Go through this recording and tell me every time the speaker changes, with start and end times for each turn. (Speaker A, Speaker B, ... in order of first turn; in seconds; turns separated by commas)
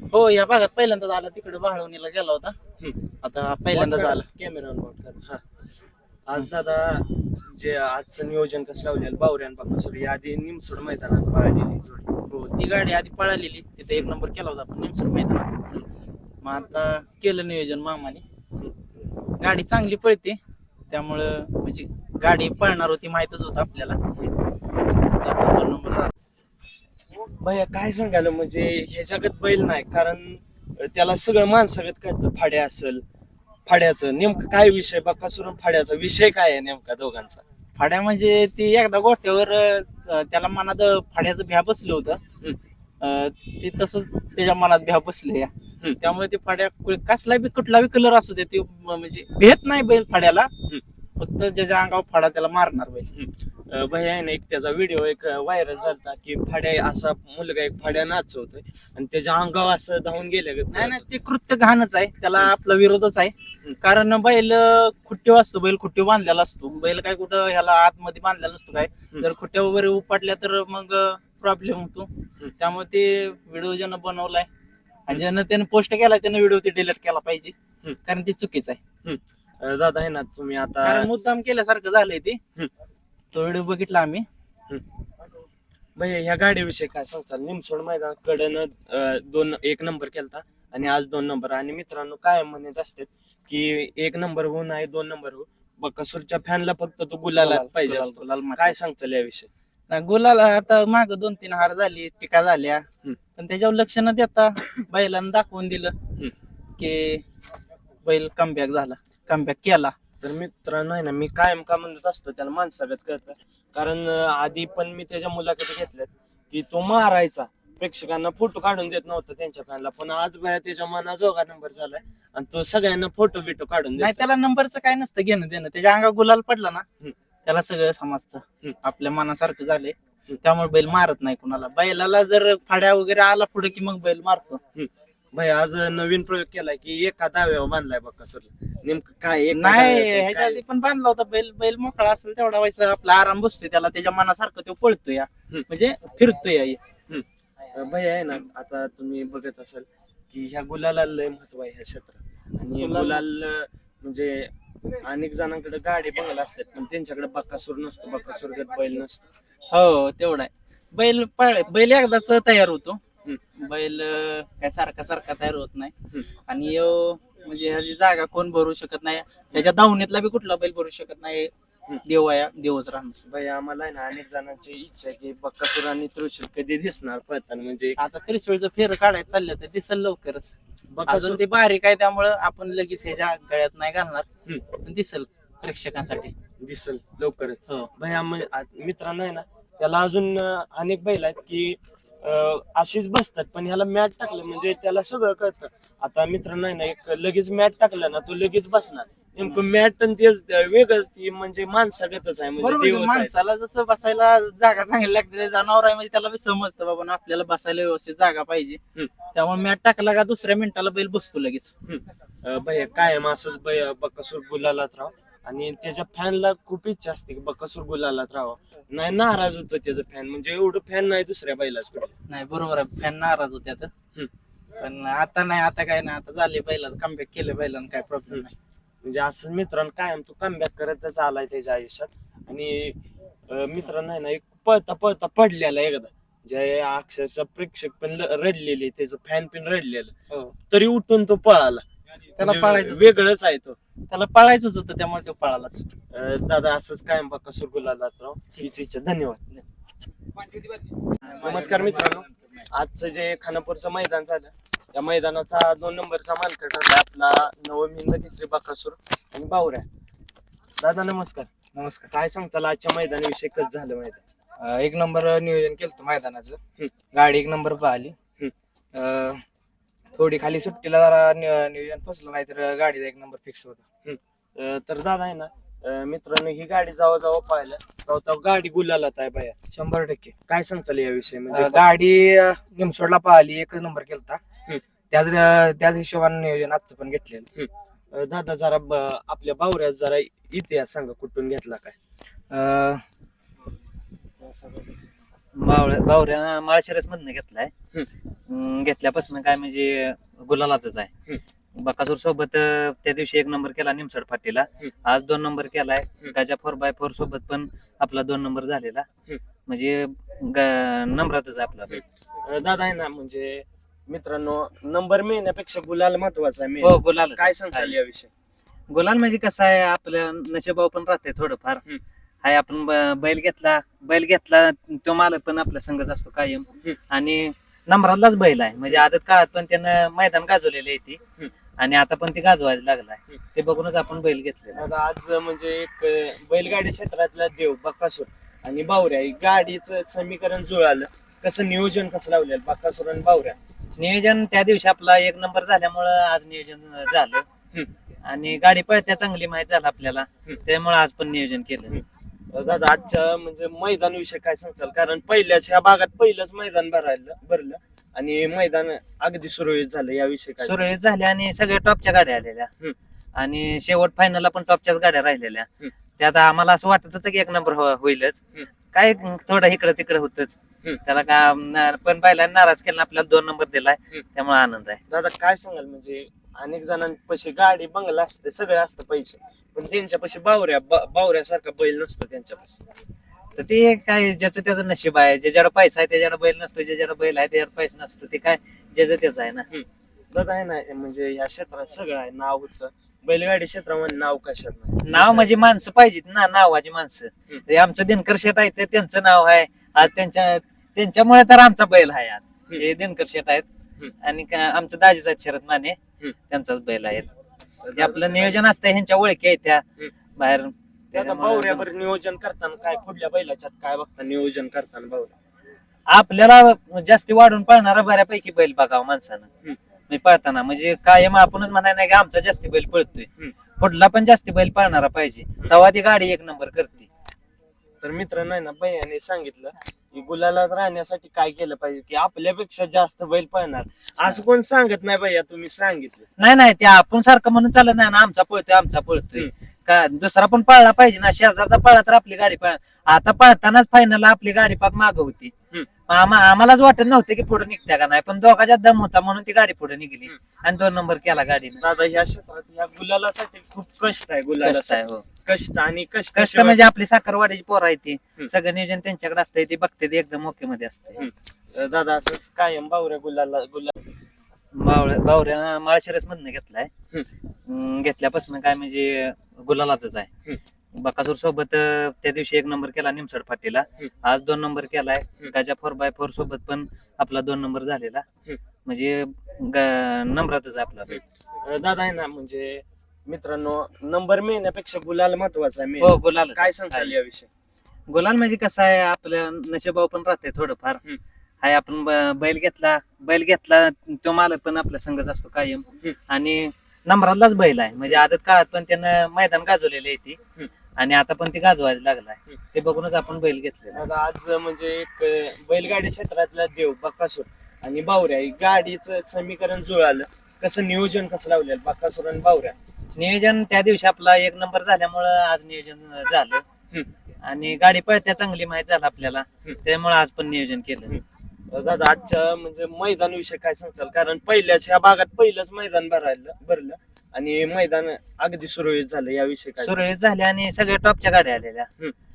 Speaker A: 0.1-2.5, Speaker A: 3.2-4.2, Speaker B: 3.7-5.4, Speaker B: 6.2-12.2, Speaker A: 12.3-15.5, Speaker A: 16.4-18.2, Speaker A: 19.4-20.4, Speaker A: 20.9-24.0, Speaker A: 25.1-26.1, Speaker B: 27.4-33.0, Speaker B: 33.7-37.4, Speaker A: 37.8-42.2, Speaker A: 43.0-50.5, Speaker A: 51.2-53.1, Speaker B: 53.1-61.0, Speaker A: 60.7-74.5, Speaker A: 75.1-77.5, Speaker A: 78.0-78.8, Speaker B: 79.0-81.1, Speaker A: 80.8-82.4, Speaker A: 83.3-84.2, Speaker B: 86.0-99.5, Speaker A: 97.3-98.7, Speaker A: 99.9-102.8, Speaker A: 103.4-105.9, Speaker A: 106.8-107.2, Speaker A: 108.0-109.9, Speaker B: 110.2-124.2, Speaker A: 124.0-126.8, Speaker A: 127.5-134.6, Speaker B: 134.8-140.6, Speaker A: 139.5-146.8, Speaker B: 147.1-159.3, Speaker A: 152.8-153.2, Speaker A: 159.7-163.0, Speaker A: 163.6-171.5, Speaker A: 172.0-173.2, Speaker B: 173.3-178.0, Speaker A: 178.0-180.5, Speaker B: 180.9-181.4, Speaker A: 181.1-184.2, Speaker A: 184.8-186.3, Speaker B: 186.6-203.3, Speaker A: 202.6-208.8, Speaker A: 209.3-211.7, Speaker B: 211.9-222.2, Speaker A: 222.3-223.9, Speaker A: 224.8-228.6, Speaker B: 229.0-240.1, Speaker B: 240.7-241.8, Speaker A: 242.4-243.1, Speaker B: 242.4-243.8, Speaker A: 244.1-245.8, Speaker B: 246.1-249.6, Speaker B: 251.2-259.9, Speaker B: 260.8-261.5, Speaker C: 261.7-262.1, Speaker B: 262.1-264.2, Speaker C: 264.6-266.6, Speaker C: 267.1-268.2, Speaker C: 268.9-269.4, Speaker C: 270.2-273.8, Speaker B: 274.0-279.6, Speaker C: 279.7-280.3, Speaker B: 280.5-281.9, Speaker C: 281.5-284.4, Speaker C: 285.1-287.5, Speaker B: 287.6-291.9, Speaker C: 292.5-293.0, Speaker D: 295.6-297.7, Speaker D: 298.5-301.1, Speaker D: 301.8-309.1, Speaker D: 309.7-312.0, Speaker B: 311.9-318.3, Speaker D: 316.8-317.9, Speaker D: 318.9-321.8, Speaker D: 322.4-331.2, Speaker D: 331.8-334.8, Speaker B: 334.8-343.6, Speaker D: 344.0-347.4, Speaker D: 348.2-351.9, Speaker B: 351.9-360.8, Speaker D: 360.6-362.7, Speaker D: 363.4-365.7, Speaker D: 366.2-368.4, Speaker D: 368.9-375.0, Speaker B: 375.1-382.7, Speaker D: 383.6-389.6, Speaker B: 389.7-395.6, Speaker D: 395.0-403.6, Speaker D: 404.2-406.0, Speaker D: 406.5-407.3, Speaker B: 407.8-408.6, Speaker D: 407.9-409.8, Speaker D: 410.4-411.9, Speaker B: 411.1-415.4, Speaker D: 416.1-419.5, Speaker D: 420.1-427.1, Speaker B: 428.0-436.3, Speaker D: 436.4-445.5, Speaker D: 446.1-451.8, Speaker B: 451.8-456.9, Speaker D: 454.6-455.2, Speaker D: 456.4-461.2, Speaker B: 461.2-463.9, Speaker D: 464.7-466.9, Speaker D: 467.7-470.3, Speaker D: 470.9-478.2, Speaker D: 478.9-481.2, Speaker B: 481.6-487.5, Speaker D: 486.0-487.1, Speaker D: 488.1-491.0, Speaker D: 491.6-500.4, Speaker D: 501.0-504.0, Speaker B: 503.9-512.8, Speaker D: 513.1-516.6, Speaker D: 517.4-521.1, Speaker B: 521.1-530.0, Speaker D: 529.8-531.9